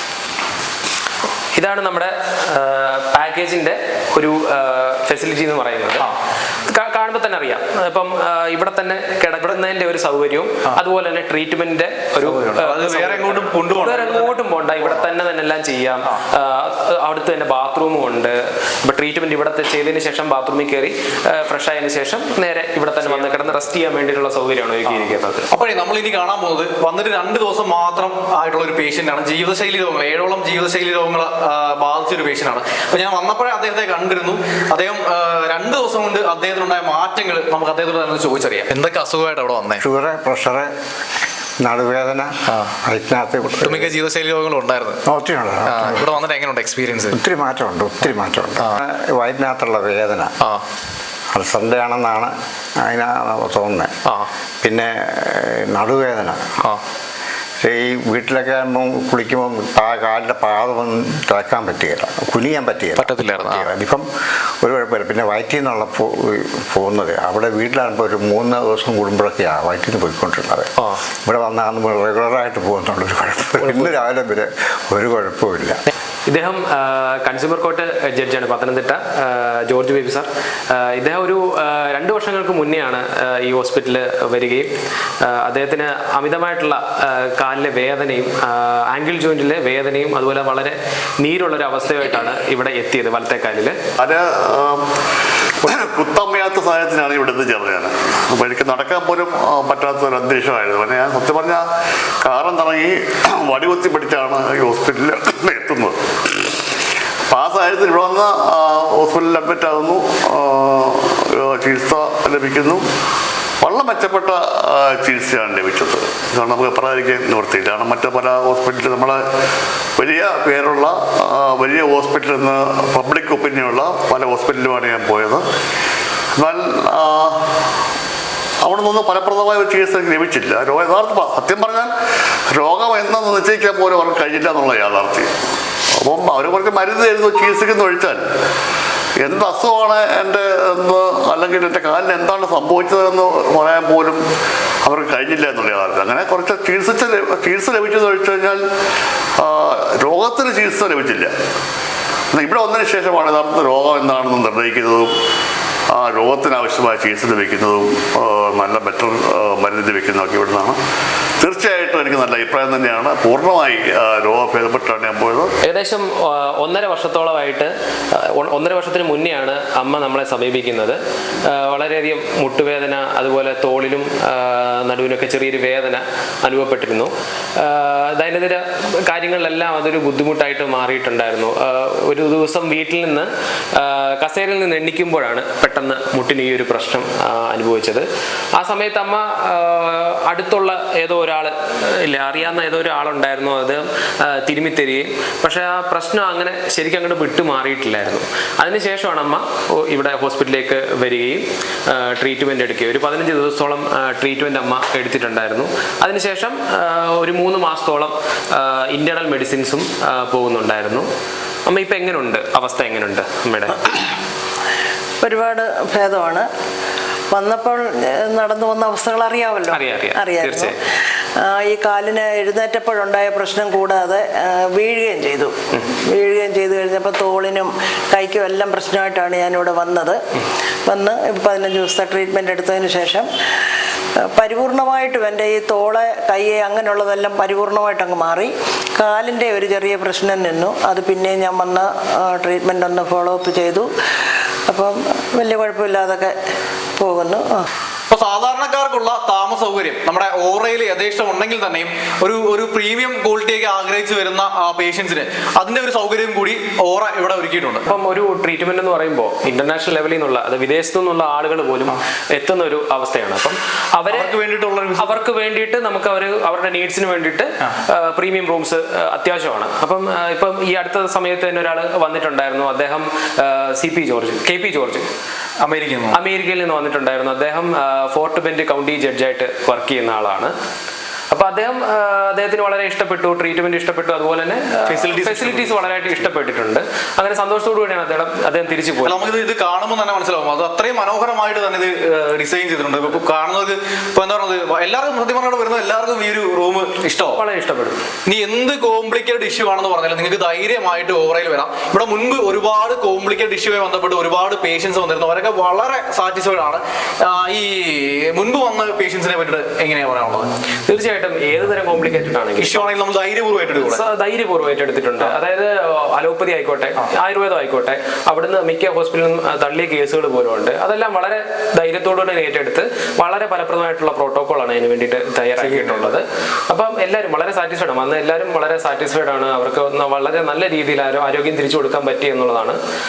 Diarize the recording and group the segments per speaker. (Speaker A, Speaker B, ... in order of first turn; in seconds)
Speaker A: 1.6-6.1, 6.7-25.5, 73.6-73.9, 76.3-84.7, 85.2-93.8, 165.7-167.7, 168.3-188.1, 188.6-211.1, 211.7-213.8, 219.7-220.8, 257.9-264.3, 265.0-275.1, 276.1-280.5, 281.3-289.3, 297.4-298.0, 310.9-312.9, 313.8-332.8
Speaker B: 12.2-15.0, 23.0-23.4, 24.8-39.8, 42.5-42.7, 43.6-45.0, 45.6-47.2, 63.0-63.7, 248.1-257.9, 264.1-265.1, 275.6-276.2, 284.9-286.3, 289.0-297.4, 298.3-310.5, 312.6-314.0, 325.6-326.1
Speaker C: 39.8-40.7, 41.6-43.9, 45.0-46.1, 47.1-50.3, 51.3-53.9, 54.6-56.4, 57.6-64.0, 64.6-70.7, 71.2-75.8
Speaker D: 94.0-94.8, 95.6-101.6, 102.2-106.5, 107.3-112.8, 113.6-119.2, 120.0-125.4, 126.3-127.4, 128.6-131.9, 132.5-135.3, 136.0-138.2, 139.2-144.2, 144.8-148.6, 149.4-151.3, 152.3-155.1, 155.9-160.8, 161.4-165.5
Speaker E: 215.2-216.5, 217.3-220.7, 221.4-230.2, 230.9-233.3, 234.3-243.9, 244.7-246.3, 247.0-247.7